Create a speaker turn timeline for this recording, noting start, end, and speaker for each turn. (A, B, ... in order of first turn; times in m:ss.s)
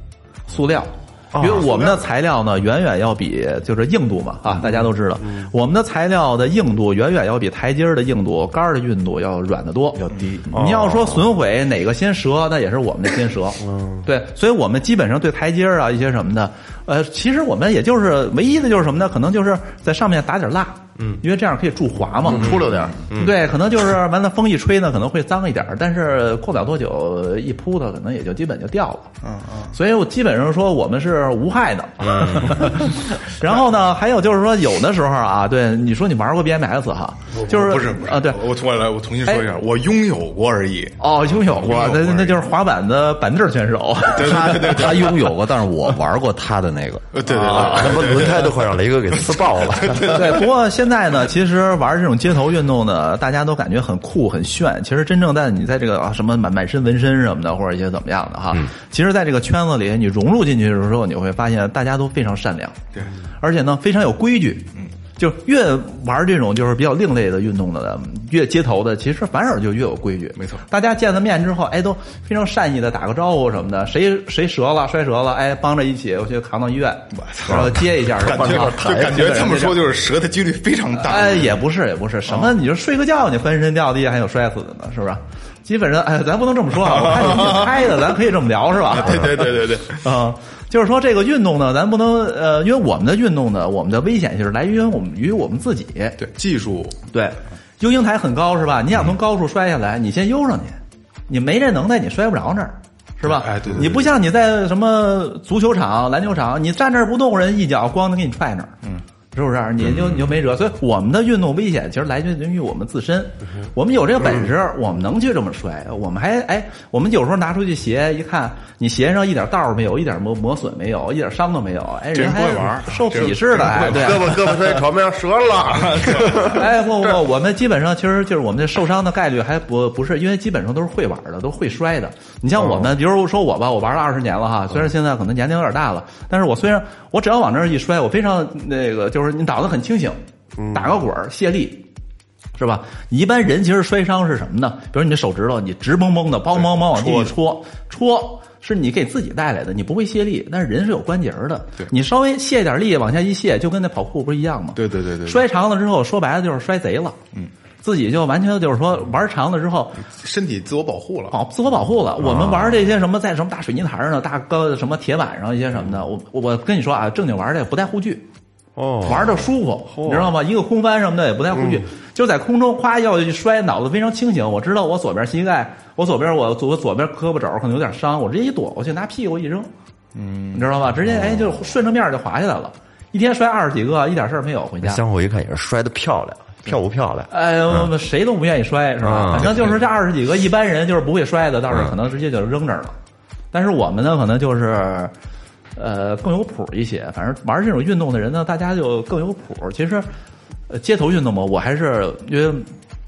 0:00.5-0:10.0 A
0:01.3-0:01.6 B
0:10.0-0:10.6 C
0:10.5-0:11.3 B
0:10.5-0:29.1 A
0:13.7-0:14.0 D
0:22.3-0:23.0 D
0:23.1-0:23.3 B
0:29.2-0:29.7 E
0:29.7-0:38.4 A
0:32.0-0:32.8 B
0:37.3-0:42.5 E
0:41.0-0:44.8 A
0:44.1-0:45.2 E
0:44.2-0:47.1 C
0:47.1-0:48.6 E
0:47.3-0:50.4 B
0:49.1-0:50.4 E
0:50.1-1:02.8 A
1:03.4-1:19.8 A
1:10.4-1:10.6 E
1:17.2-1:21.6 E
1:18.4-1:19.2 D
1:21.0-1:36.2 A
1:26.8-1:27.7 E
1:28.9-1:30.0 E
1:36.2-1:37.0 E
1:37.1-1:40.8 A
1:41.3-1:48.7 A
1:43.2-1:44.1 E
1:49.3-2:04.5 A
1:49.9-1:50.2 B
2:02.1-2:04.5 E
2:03.8-2:06.6 D
2:05.6-2:06.6 E
2:06.4-2:20.2 A
2:20.7-2:21.8 A
2:22.6-2:37.2 A
2:26.5-2:27.3 E
2:34.8-2:35.4 E
2:37.8-2:40.0 A
2:40.1-2:41.4 E
2:41.3-2:48.2 A
2:42.2-2:42.8 B
2:48.8-2:50.3 B
2:49.0-2:59.7 A
3:00.1-3:00.7 E
3:00.5-3:05.0 A
3:01.1-3:01.5 B
3:04.8-3:07.9 B
3:07.3-3:12.9 A
3:09.0-3:09.8 B
3:13.5-3:15.1 A
3:15.8-3:20.1 A
3:20.7-3:22.7 A